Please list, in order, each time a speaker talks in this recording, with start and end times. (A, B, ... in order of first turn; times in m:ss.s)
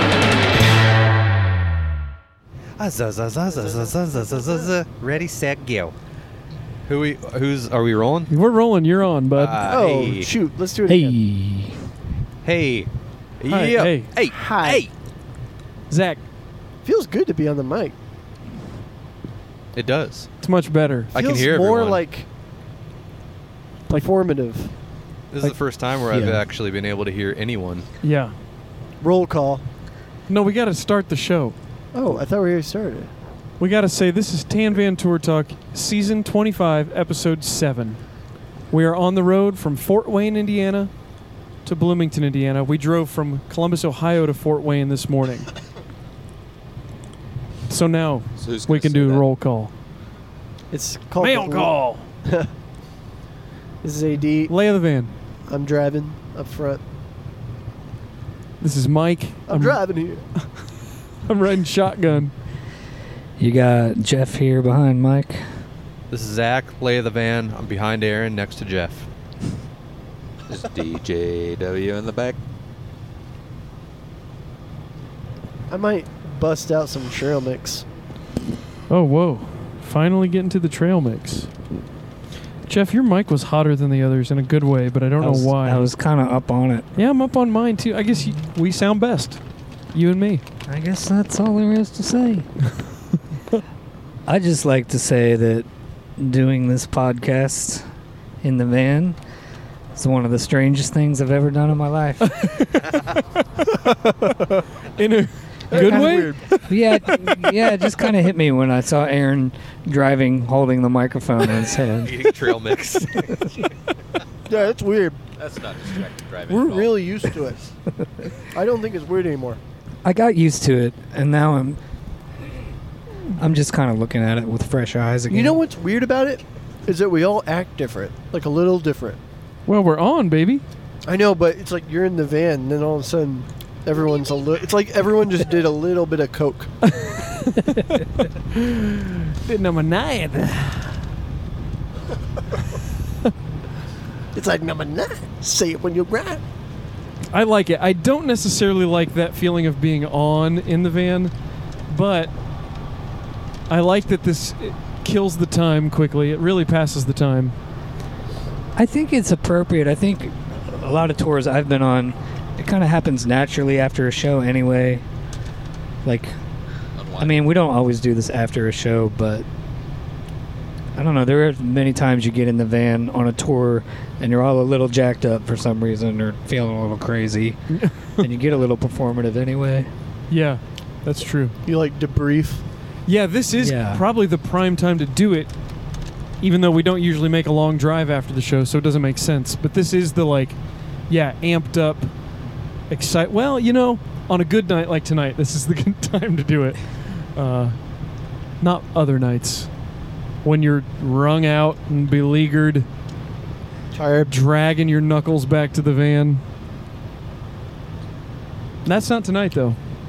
0:02.8-0:05.9 A
0:03.6-0:04.7 B
0:06.8-0:08.3 A
0:08.3-0:09.7 C
0:09.3-0:10.3 A
0:09.6-0:11.2 B
0:10.8-0:11.8 D
0:12.4-0:14.9 A
0:13.5-0:14.1 C
0:14.3-0:14.8 B
0:15.9-0:16.2 C
0:16.8-0:17.9 B
0:19.7-0:20.3 A
0:20.4-0:21.2 C
0:21.1-0:22.0 A
0:21.1-0:22.3 B
0:23.9-0:24.7 B
0:25.3-0:27.8 A
0:26.1-0:26.4 B
0:28.0-0:28.3 C
0:29.0-0:29.6 B
0:30.3-0:31.6 C
0:31.9-0:33.1 B
0:33.6-0:38.0 C
0:38.7-0:40.9 C
0:41.6-0:45.5 C
0:47.7-0:49.7 C
0:48.4-0:49.2 E
0:50.7-0:52.5 B
0:51.2-0:52.1 C
0:53.8-0:54.5 B
0:54.5-0:55.1 C
0:55.5-0:56.8 B
0:58.6-0:59.8 C
0:59.5-1:00.2 B
1:01.2-1:02.3 C
1:03.4-1:05.4 D
1:06.1-1:09.1 A
1:10.5-1:12.4 E
1:15.7-1:17.8 B
1:18.9-1:21.5 C
1:22.7-1:25.9 C
1:25.2-1:26.9 D
1:27.0-1:29.4 C
1:29.9-1:30.4 C
1:30.6-1:32.5 D
1:34.3-1:35.7 D
1:36.2-1:37.9 D
1:38.4-1:39.2 D
1:39.9-1:42.4 D
1:42.2-1:42.9 C
1:43.6-1:47.7 C
1:45.7-1:46.4 B
1:45.7-1:52.6 D
1:52.0-1:53.6 A
1:54.5-1:55.2 B
1:55.4-1:57.0 E
1:56.5-1:57.6 B
1:58.4-1:59.6 B
2:00.0-2:01.8 D
2:03.3-2:05.6 D
2:05.3-2:09.2 B
2:09.7-2:10.6 C
2:11.0-2:16.9 B
2:16.8-2:20.9 C
2:24.3-2:26.4 B
2:27.3-2:31.3 C
2:31.9-2:32.3 C
2:33.7-2:37.5 C
2:38.8-2:45.0 D
2:46.0-2:46.4 D
2:47.0-2:47.4 E
2:47.2-2:49.4 D
2:50.9-2:57.7 D
2:57.7-2:58.2 C
2:58.2-2:59.9 D
3:00.3-3:01.6 C
3:01.6-3:02.6 B
3:03.0-3:05.5 C
3:03.6-3:04.0 D
3:06.4-3:10.6 C
3:11.1-3:12.1 C
3:12.9-3:17.8 C
3:18.6-3:19.7 C
3:20.4-3:22.9 C
3:23.9-3:24.3 B
3:24.3-3:26.4 C
3:28.8-3:29.8 C